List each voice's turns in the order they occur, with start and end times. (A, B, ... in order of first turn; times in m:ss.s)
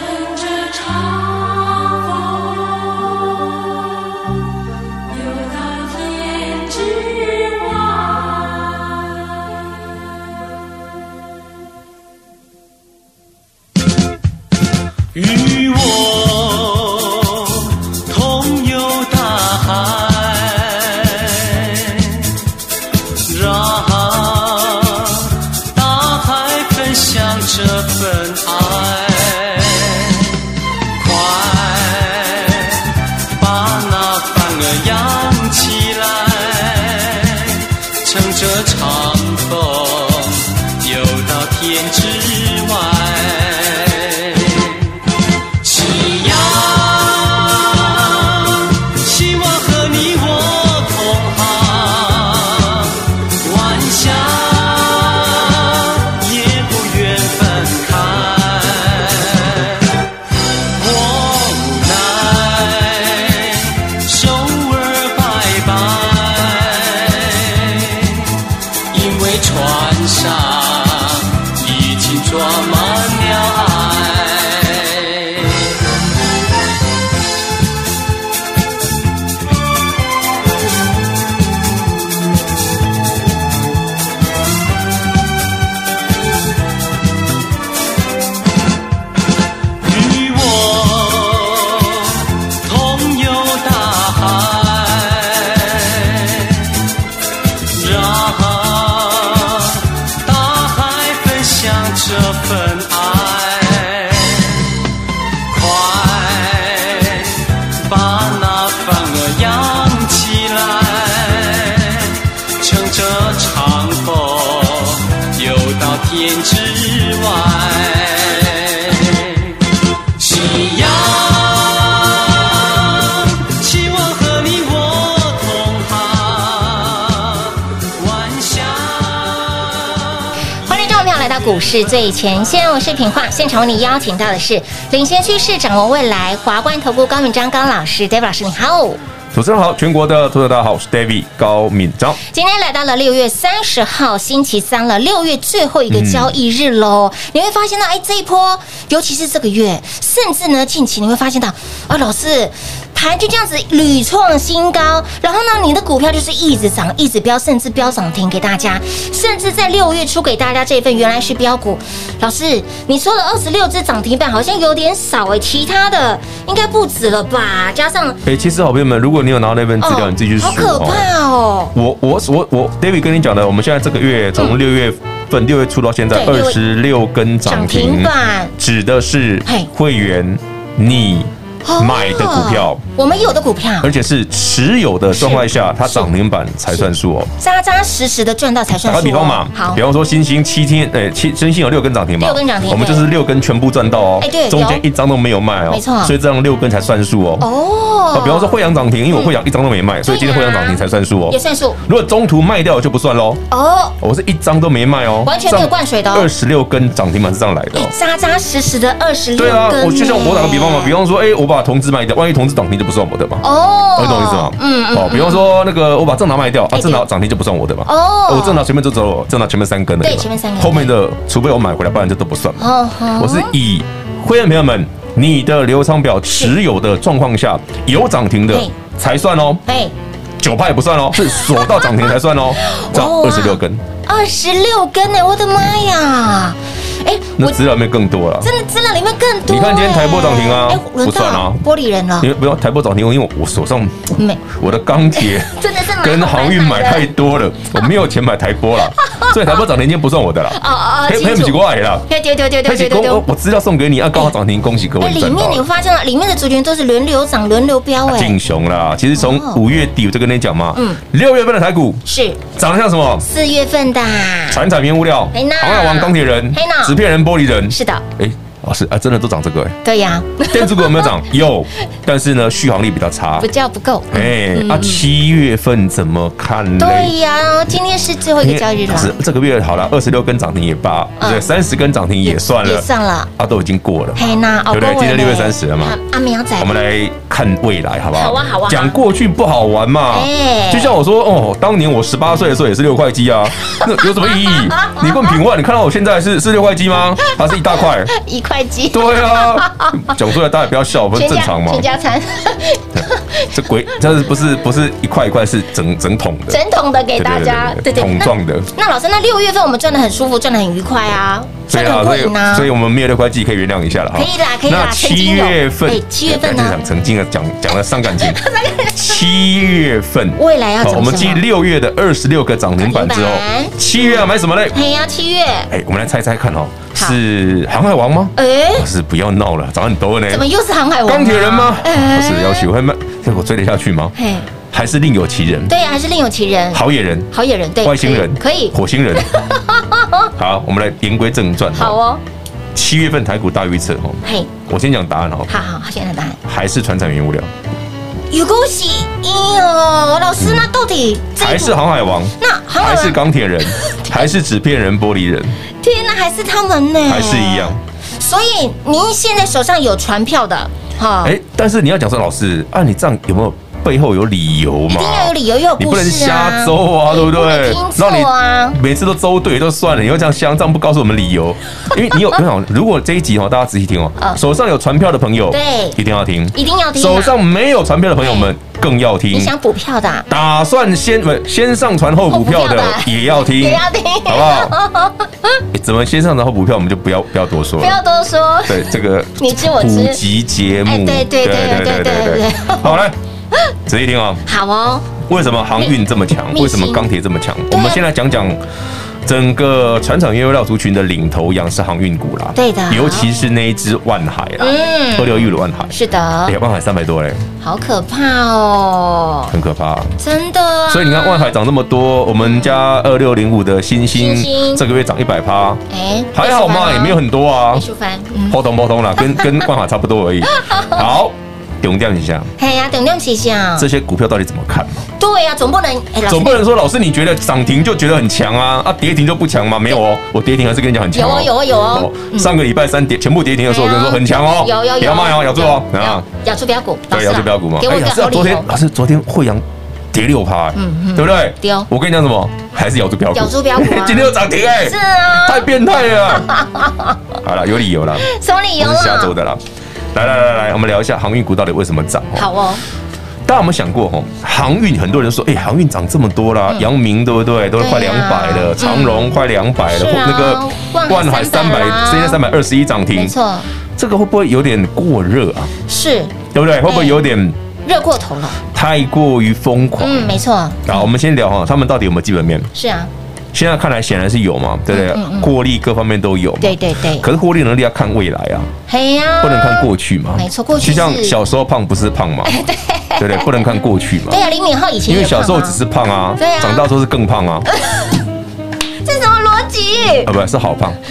0:15.1-0:22.3 A
0:23.2-0:30.4 A
0:30.9-0:44.9 A
0:45.6-0:59.9 A
1:00.7-1:08.4 A
1:08.9-1:15.7 A
1:29.8-1:36.8 A
1:37.7-1:44.6 A
1:45.5-1:59.6 A
2:00.2-2:10.2 A
2:10.6-2:19.0 B
2:19.3-2:22.2 C
2:22.2-2:48.2 B
2:25.9-2:26.3 C
2:48.2-2:51.1 C
2:49.8-2:51.7 B
2:51.7-3:02.8 C
2:56.1-2:56.6 B
2:57.4-2:58.5 B
3:01.6-3:03.9 B
3:03.8-3:07.3 C
3:05.1-3:06.1 B
3:07.4-3:09.8 B
3:08.8-3:17.5 C
3:12.2-3:13.1 B
3:14.2-3:14.8 B
3:15.7-3:16.1 B
3:17.4-3:18.5 B
3:18.1-3:23.4 C
3:19.1-3:19.3 B
3:20.0-3:21.8 B
3:23.5-3:23.9 B
3:24.0-3:27.9 C
3:25.2-3:26.3 B
3:27.7-3:30.9 B
3:29.4-3:33.4 C
3:33.4-3:35.4 B
3:34.0-3:49.6 C
3:36.7-3:37.1 B
3:37.8-3:38.6 B
3:40.0-3:40.9 B
3:42.6-3:43.5 B
3:49.7-3:49.9 B
3:50.4-3:53.8 C
3:51.5-3:51.8 B
3:52.6-3:57.5 B
3:57.4-3:58.5 C
3:58.4-4:02.3 B
3:59.5-4:01.6 C
4:02.2-4:12.1 C
4:04.2-4:04.4 B
4:05.2-4:07.1 B
4:10.5-4:13.2 B
4:12.6-4:15.7 C
4:15.0-4:18.3 B
4:18.0-4:23.2 C
4:19.2-4:19.6 B
4:20.7-4:21.0 B
4:22.1-4:22.4 B
4:23.2-4:24.6 B
4:24.5-4:29.8 C
4:25.3-4:27.0 B
4:27.7-4:28.0 B
4:29.8-4:31.2 B
4:30.5-4:33.5 C
4:33.4-4:35.0 B
4:34.1-4:37.1 C
4:36.8-4:39.1 B
4:38.4-4:46.0 C
4:41.2-4:41.6 B
4:42.2-4:43.3 B
4:44.2-4:46.8 B
4:46.6-4:58.1 C
4:48.1-4:49.0 B
4:50.1-4:51.0 B
4:54.4-4:55.0 B
4:58.1-5:00.1 B
4:58.9-5:01.9 C
5:01.1-5:03.5 B
5:03.0-5:06.6 C
5:06.5-5:12.7 B
5:07.2-5:08.7 C
5:11.7-5:18.4 C
5:14.1-5:16.8 B
5:18.1-5:19.1 B
5:19.0-5:24.8 C
5:20.4-5:21.4 B
5:22.8-5:25.7 B
5:25.7-5:30.4 C
5:28.4-5:28.8 B
5:30.3-5:32.7 B
5:31.0-5:34.2 C
5:34.2-5:34.5 B
5:34.7-5:35.7 C
5:35.7-5:40.3 B
5:36.7-5:37.3 C
5:37.8-5:39.3 C
5:40.4-5:42.0 C
5:41.8-5:42.2 B
5:42.7-5:45.5 C
5:44.2-5:44.5 B
5:45.5-5:46.4 B
5:46.4-5:47.5 C
5:48.3-5:51.8 B
5:50.4-5:50.7 C
5:51.4-5:55.5 C
5:52.4-5:53.2 B
5:53.7-5:54.3 B
5:55.8-6:01.4 B
5:57.0-5:57.8 C
6:01.2-6:19.5 C
6:04.9-6:08.8 B
6:15.5-6:16.0 B
6:16.5-6:17.3 B
6:18.2-6:18.5 B
6:19.3-6:20.3 B
6:20.3-6:24.8 C
6:22.3-6:25.6 B
6:25.7-6:28.0 C
6:27.8-6:30.2 B
6:28.6-6:33.2 C
6:30.8-6:33.0 B
6:33.9-6:34.4 C
6:34.5-6:35.2 B
6:35.3-6:38.6 C
6:36.5-6:37.0 B
6:37.7-6:38.0 B
6:39.2-6:45.9 C
6:42.6-6:43.3 B
6:44.6-6:46.5 B
6:46.5-6:47.4 C
6:47.6-6:49.5 B
6:49.5-6:50.2 C
6:50.2-6:51.5 B
6:50.9-6:55.8 C
6:52.4-6:52.7 B
6:54.2-6:54.8 B
6:55.9-6:57.2 B
6:56.3-6:57.8 C
6:57.7-6:58.6 B
6:58.5-7:02.5 C
6:59.2-6:59.5 B
7:00.5-7:01.1 B
7:02.6-7:03.9 B
7:03.8-7:05.1 C
7:05.2-7:06.6 B
7:06.3-7:16.2 C
7:11.1-7:12.5 B
7:13.7-7:18.7 B
7:17.1-7:26.5 C
7:20.7-7:21.9 B
7:23.3-7:25.7 B
7:26.3-7:27.2 B
7:27.4-7:28.3 C
7:28.2-7:29.3 B
7:28.8-7:29.6 C
7:30.1-7:32.5 C
7:32.4-7:32.8 B
7:33.4-7:43.3 C
7:37.8-7:39.3 B
7:39.9-7:42.4 B
7:43.1-7:43.7 B
7:44.0-7:45.7 C
7:45.9-7:47.2 B
7:46.5-7:47.6 C
7:47.8-7:48.6 B
7:48.7-7:50.3 C
7:50.0-7:51.1 B
7:50.9-7:52.7 C
7:52.7-7:53.1 B
7:53.5-7:58.7 C
7:54.9-7:55.5 B
7:56.6-7:57.2 B
7:58.9-8:01.4 B
7:59.4-8:02.6 C
8:02.4-8:03.8 B
8:03.2-8:04.4 C
8:04.3-8:05.8 B
8:05.1-8:07.7 C
8:06.4-8:06.8 B
8:07.7-8:08.2 B
8:09.0-8:10.3 B
8:10.2-8:11.0 C